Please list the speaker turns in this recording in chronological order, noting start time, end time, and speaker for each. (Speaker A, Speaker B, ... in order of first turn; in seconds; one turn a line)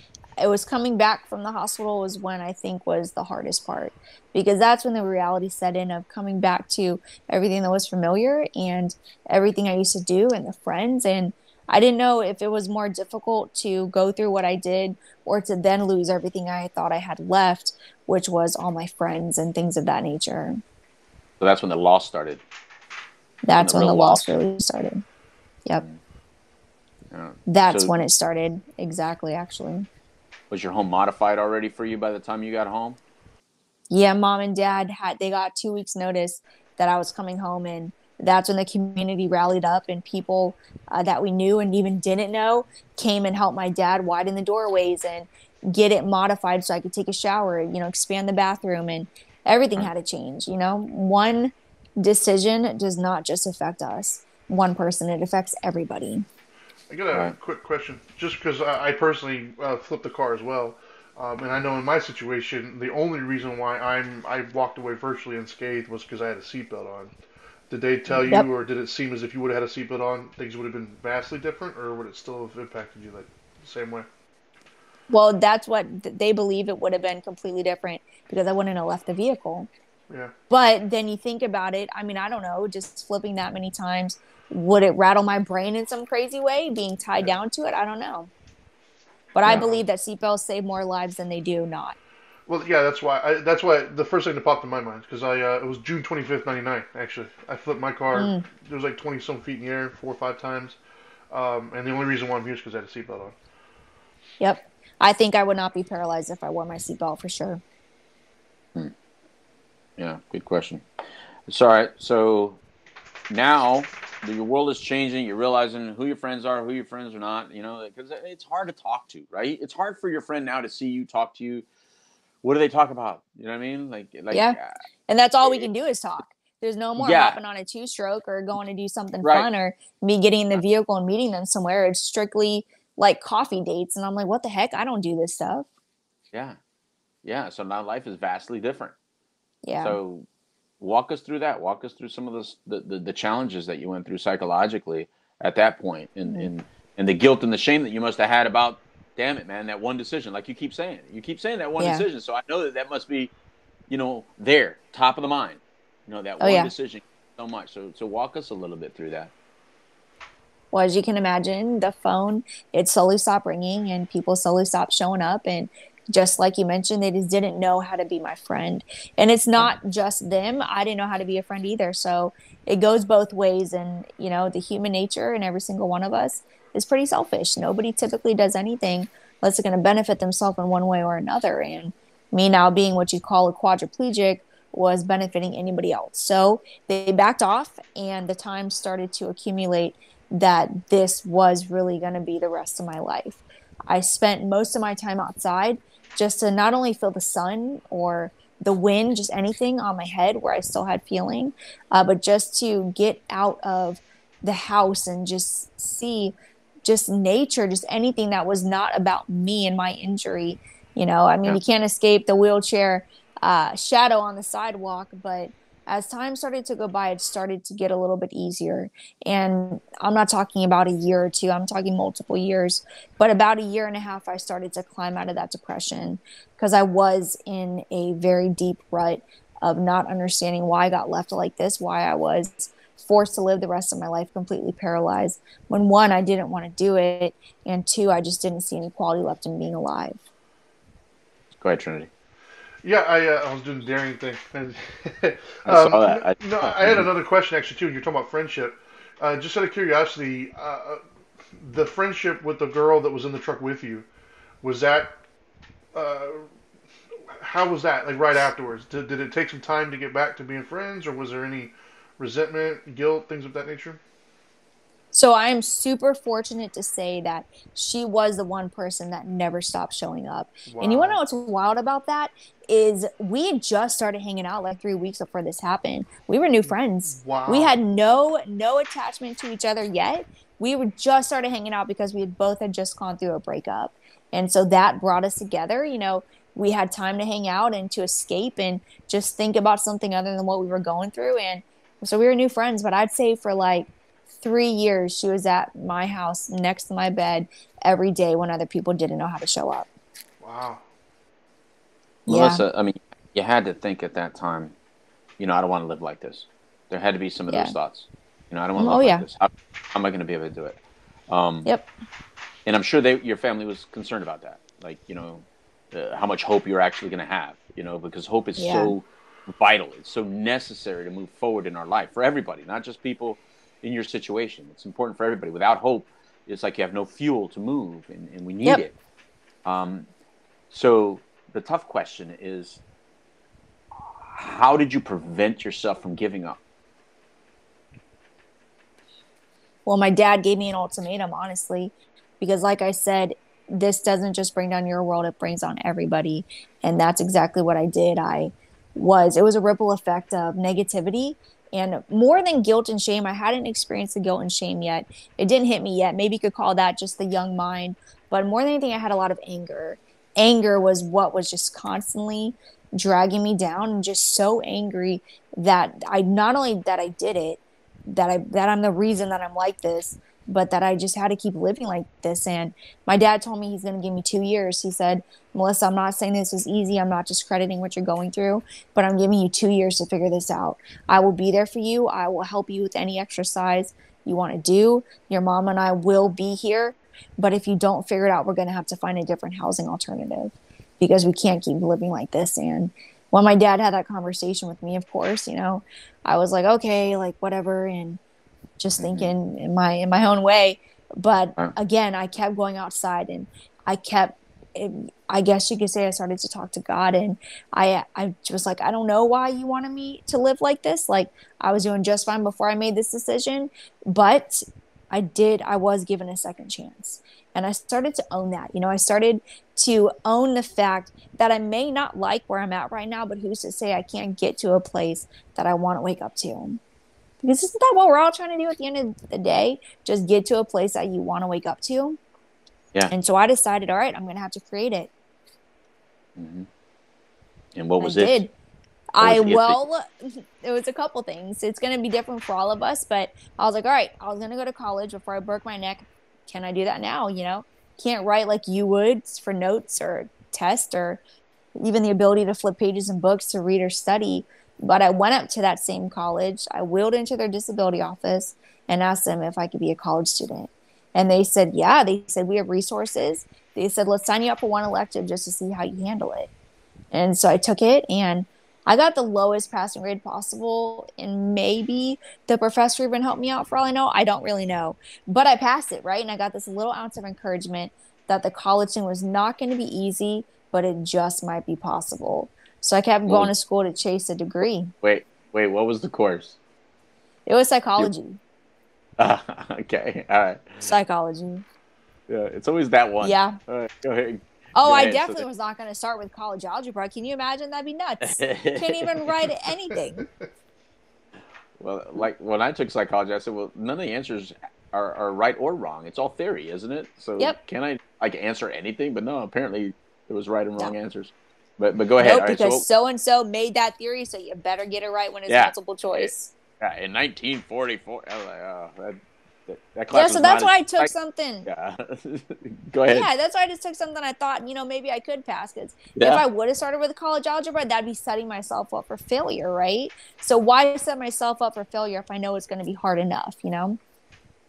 Speaker A: 0.4-20.6
Speaker B: 21.4-22.4
Speaker A: 23.4-25.0
Speaker B: 23.6-24.4
Speaker B: 27.1-27.9
Speaker A: 27.5-29.9
Speaker B: 30.5-33.0
Speaker A: 33.9-56.3
Speaker C: 56.9-67.1
Speaker C: 67.7-74.1
Speaker B: 68.1-68.3
Speaker A: 75.1-79.7
Speaker A: 80.5-88.3
Speaker A: 89.3-92.0
Speaker B: 89.5-89.8
Speaker C: 92.5-100.8
Speaker A: 98.1-98.5
Speaker C: 101.3-103.4
Speaker A: 104.4-107.6
Speaker B: 110.0-110.8
Speaker B: 111.5-112.6
Speaker B: 113.3-121.7
Speaker B: 122.4-124.8
Speaker A: 124.3-124.6
Speaker A: 125.1-135.7
Speaker B: 127.0-127.4
Speaker B: 129.2-129.5
Speaker B: 136.3-136.6
Speaker B: 137.2-138.9
Speaker A: 139.7-140.0
Speaker B: 139.8-140.3
Speaker B: 140.8-153.3
Speaker A: 151.8-152.1
Speaker B: 153.9-159.3
Speaker A: 156.4-156.7
Speaker A: 160.7-240.2
Speaker B: 241.6-242.1
Speaker C: 242.8-251.0
Speaker B: 245.7-247.1
Speaker C: 251.6-254.1
Speaker C: 254.6-255.1
Speaker C: 255.9-256.5
Speaker C: 257.3-264.0
Speaker A: 265.1-293.9
Speaker C: 270.7-271.2
Speaker C: 276.6-277.8
Speaker A: 294.4-299.9
Speaker C: 300.4-300.8
Speaker B: 302.3-304.8
Speaker A: 302.3-302.6
Speaker B: 305.4-311.7
Speaker A: 307.5-307.7
Speaker A: 308.8-309.2
Speaker B: 312.6-328.9
Speaker A: 318.6-318.9
Speaker B: 329.6-330.1
Speaker B: 330.7-332.8
Speaker B: 334.2-336.6
Speaker A: 339.9-398.2
Speaker A: 398.8-426.8
Speaker B: 399.0-399.3
Speaker A: 427.4-432.2
Speaker A: 433.1-435.1
Speaker B: 436.4-436.7
Speaker B: 437.8-438.4
Speaker A: 438.0-438.5
Speaker A: 439.1-451.2
Speaker B: 439.2-439.8
Speaker A: 451.8-466.5
Speaker A: 467.1-484.9
Speaker B: 483.3-483.5
Speaker B: 485.0-486.6
Speaker A: 487.5-488.4
Speaker B: 489.2-490.8
Speaker A: 490.8-491.6
Speaker B: 492.3-495.5
Speaker A: 493.2-493.6
Speaker A: 494.8-500.2
Speaker B: 498.2-499.5
Speaker B: 501.8-512.9
Speaker A: 512.2-516.5
Speaker B: 515.5-521.1
Speaker A: 520.1-521.7
Speaker B: 521.7-523.3
Speaker A: 523.1-534.0
Speaker B: 526.2-526.4